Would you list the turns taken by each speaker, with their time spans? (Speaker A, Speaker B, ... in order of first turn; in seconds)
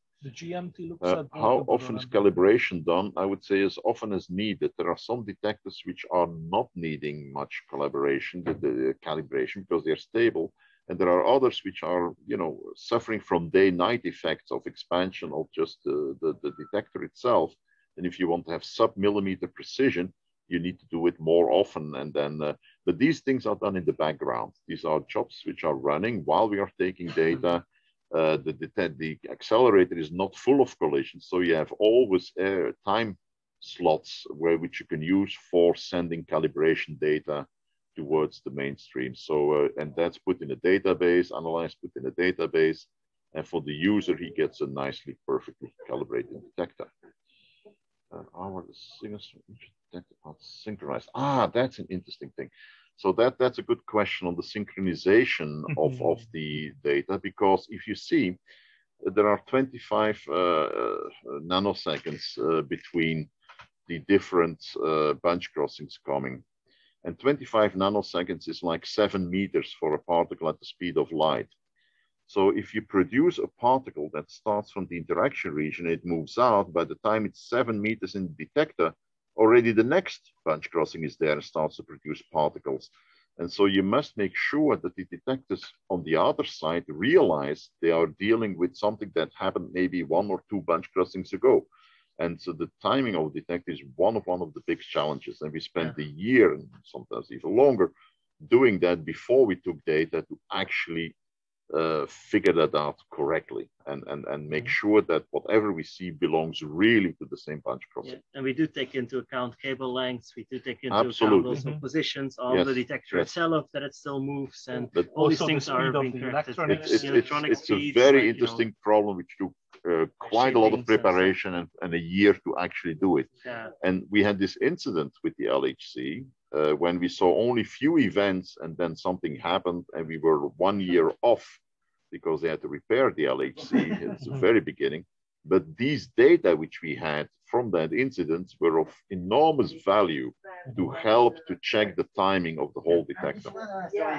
Speaker A: 0.2-2.2, 55.7-56.0, 111.5-111.8, 114.8-117.4
Speaker B: 1.0-46.9, 48.1-58.4, 59.0-63.3, 63.9-66.4, 67.0-71.5, 72.3-91.7, 92.2-101.2, 101.7-108.2, 110.9-111.6, 112.5-113.3, 116.7-123.3, 123.8-131.6, 132.1-143.6
Speaker C: 108.0-118.6, 120.3-121.2, 123.5-123.7